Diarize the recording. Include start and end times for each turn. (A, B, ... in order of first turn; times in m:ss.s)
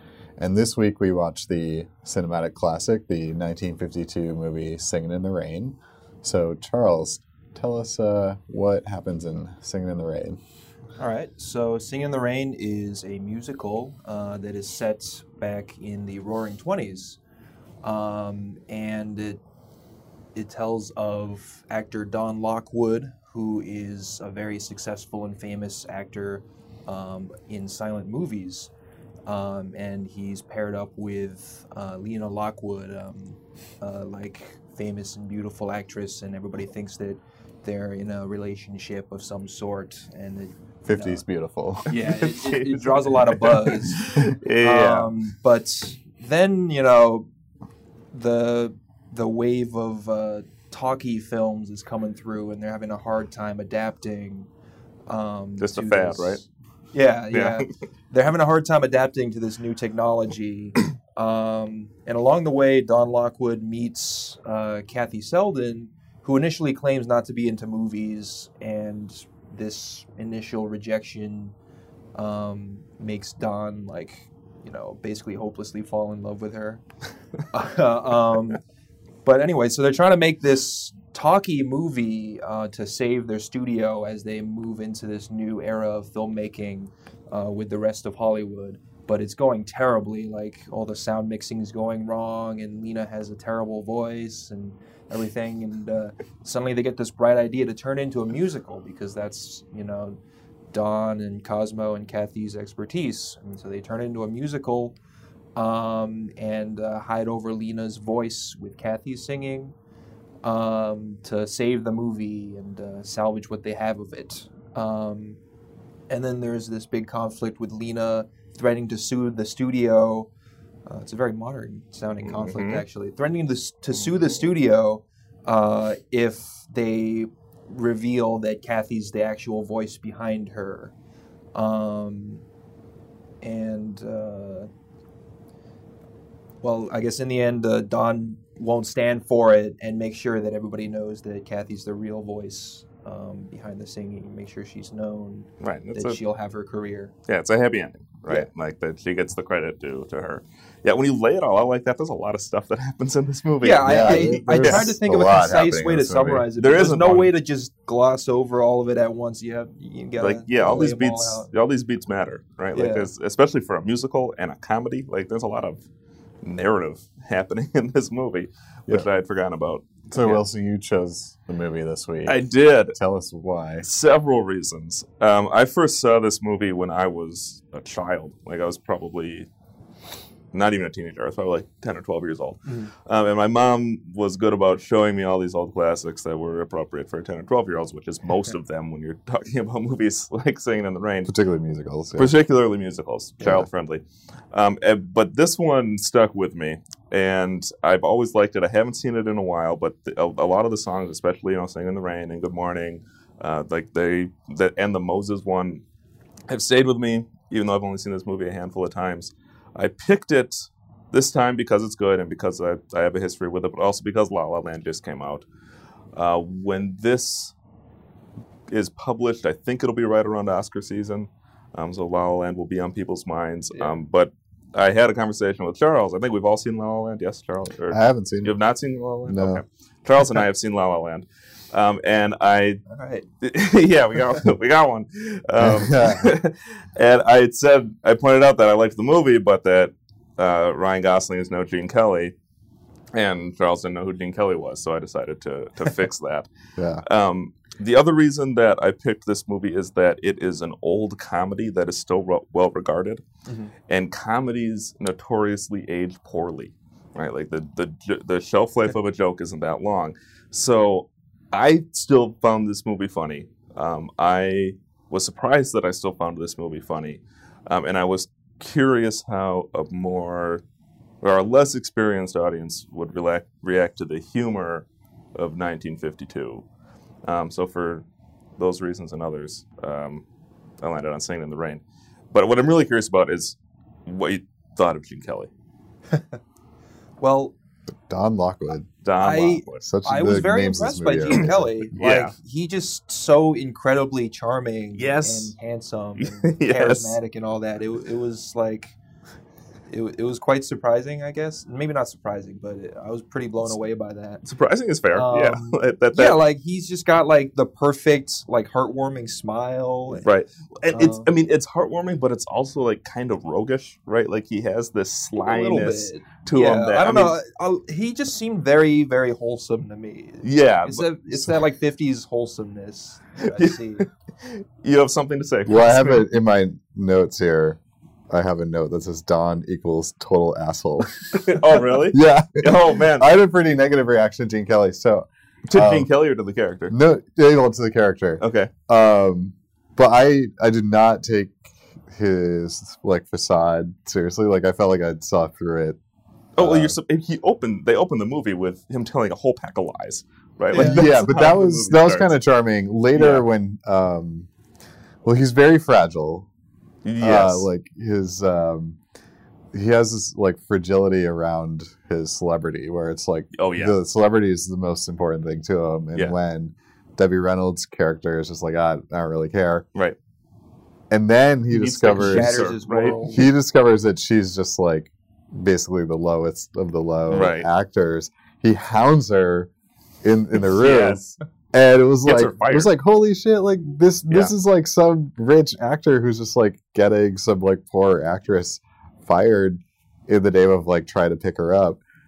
0:00.4-0:10.4 A
0:11.0-0:17.2 B
0:17.8-0:19.4 B
0:20.4-0:28.7 B
0:29.3-0:41.2 B
0:40.8-0:41.9 A
0:41.9-0:47.3 B
0:41.9-0:45.1 C
0:48.1-0:54.5 B
0:55.1-1:11.6 B
0:55.6-0:56.4 C
0:57.3-0:57.7 C
1:12.2-1:16.8 B
1:17.5-1:18.6 B
1:19.2-1:40.2 B
1:40.7-1:45.0 B
1:45.6-1:49.7 B
1:50.4-1:55.4 B
1:56.1-2:00.3 B
2:00.9-2:10.9 B
2:02.2-2:02.8 C
2:11.6-2:12.4 B
2:13.4-2:14.7 B
2:16.6-2:27.1 B
2:25.6-2:26.2 C
2:27.3-2:34.9 C
2:33.6-2:41.5 B
2:33.8-2:36.4 A
2:36.6-2:37.4 C
2:40.2-2:45.8 C
2:42.8-2:43.1 B
2:46.4-2:50.4 C
2:50.1-2:53.9 A
2:52.2-2:53.0 C
2:53.8-2:59.5 C
3:00.5-3:11.3 C
3:11.3-3:12.4 A
3:12.2-3:25.8 C
3:26.5-3:35.5 C
3:36.1-3:37.5 C
3:38.7-3:52.8 C
3:47.9-3:48.5 A
3:49.2-3:49.6 A
3:52.9-3:53.2 B
3:53.4-4:02.3 C
3:55.6-3:56.3 A
4:03.1-4:06.5 C
4:06.8-4:07.0 A
4:07.0-4:13.2 C
4:13.9-4:30.6 C
4:31.2-4:36.6 C
4:37.3-4:38.0 C
4:38.6-4:40.2 C
4:40.8-4:41.8 C
4:42.3-4:45.5 C
4:47.2-4:47.5 B
4:48.1-4:48.9 A
4:49.0-4:49.8 C
4:49.2-4:59.0 B
4:49.8-4:51.9 A
4:52.0-4:52.3 C
4:55.0-4:55.5 C
4:56.2-4:57.2 C
4:59.9-5:04.4 B
5:04.4-5:06.4 C
5:05.1-5:10.3 B
5:10.2-5:17.4 C
5:10.9-5:11.3 B
5:15.4-5:24.1 B
5:20.4-5:21.1 C
5:23.4-5:26.2 C
5:25.7-5:27.8 A
5:28.3-5:36.1 A
5:31.3-5:33.4 C
5:35.7-5:36.9 C
5:36.9-5:41.6 A
5:38.4-5:38.7 C
5:42.1-5:46.0 A
5:46.6-5:52.3 C
5:46.6-5:47.0 A
5:50.7-5:51.5 B
5:50.7-5:54.5 A
5:53.1-5:53.5 C
5:55.2-5:56.5 A
5:57.0-5:57.7 C
5:57.2-5:59.0 A
5:59.7-6:09.8 A
6:03.6-6:04.0 C
6:11.1-6:12.7 A
6:11.7-6:13.4 C
6:12.2-6:13.5 B
6:13.2-6:19.7 A
6:17.3-6:17.7 C
6:20.2-6:21.2 A
6:20.6-6:21.4 C
6:21.7-6:32.0 A
6:22.2-6:22.9 C